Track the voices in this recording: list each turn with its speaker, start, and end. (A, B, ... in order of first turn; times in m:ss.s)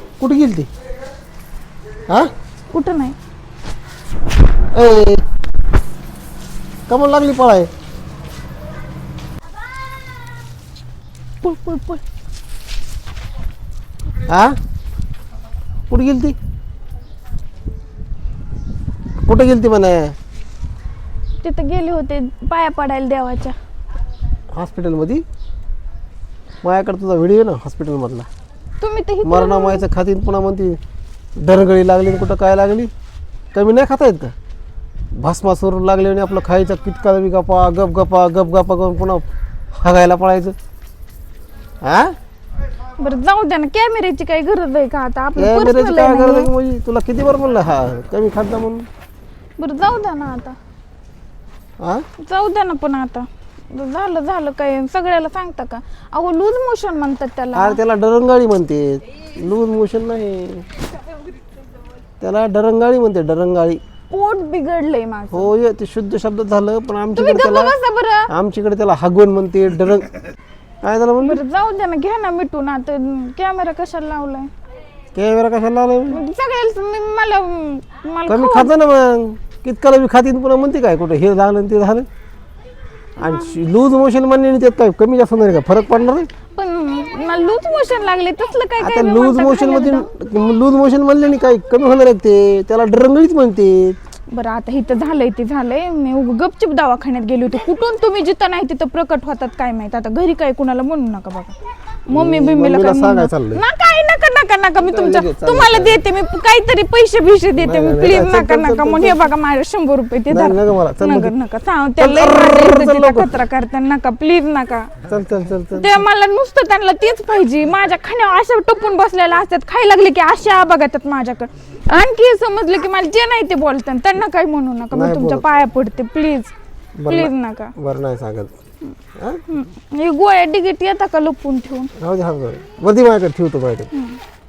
0:00.2-0:00.7 A
0:02.7-0:03.1 B
0:04.7-0:05.2 A
0:06.9-0:07.7 A
0:11.4-0:12.0 B
0:14.3-0:14.6 A
0:15.9-0:16.3 A
0:19.2-0:20.1 A
0:21.4-0:23.6 B
0:24.5-0:25.2 A
0:26.6-0:28.2 A
0:28.8-0:29.8 B
0:29.2-0:30.8 A
0:31.4-0:32.9 A
0:33.5-0:34.3 A
0:35.2-0:39.2 A
0:39.8-0:40.5 A
0:41.8-0:42.1 A
0:43.0-0:46.5 B
0:45.4-0:48.8 A
0:49.6-0:50.6 B
0:52.2-0:57.8 B
0:57.5-1:00.6 A
1:02.2-1:03.8 A
1:04.1-1:05.5 B
1:05.3-1:07.7 A
1:07.2-1:08.3 B
1:08.3-1:10.1 A
1:10.8-1:11.4 A
1:11.2-1:14.5 B
1:15.1-1:16.2 A
1:16.1-1:18.7 B
1:18.3-1:22.1 A
1:23.2-1:26.3 A
1:23.2-1:23.6 B
1:26.5-1:30.1 B
1:28.8-1:34.0 A
1:34.3-1:41.5 B
1:42.1-1:54.9 B
1:42.1-1:43.6 A
1:44.8-1:46.0 A
1:47.6-1:49.2 A
1:50.3-1:51.3 A
1:52.0-1:53.3 A
1:55.0-1:56.0 A
1:55.7-2:06.5 B
2:04.9-2:05.4 A
2:07.0-2:08.6 A
2:07.1-2:07.7 B
2:09.2-2:09.4 A
2:09.5-2:11.9 B
2:12.0-2:13.9 A
2:13.9-2:14.2 B